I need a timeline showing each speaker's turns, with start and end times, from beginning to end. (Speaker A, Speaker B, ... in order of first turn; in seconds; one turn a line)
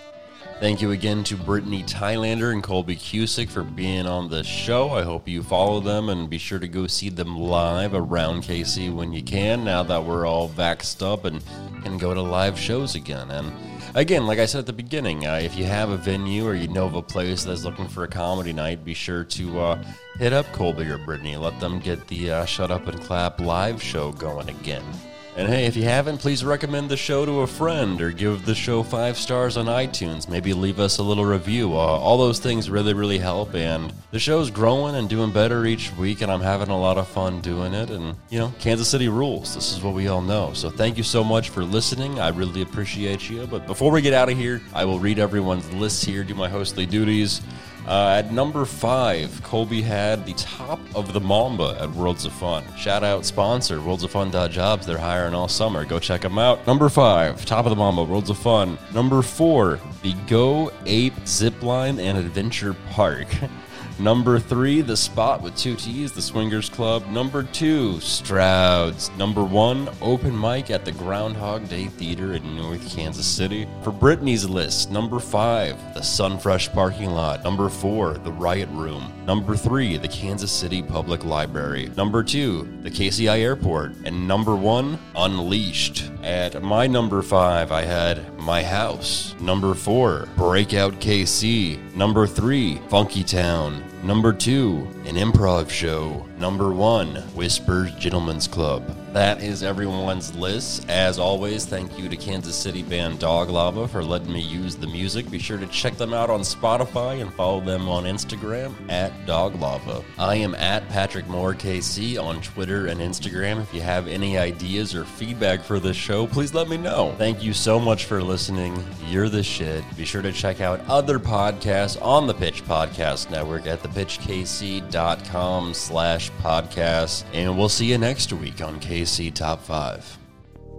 Speaker A: 0.6-130.2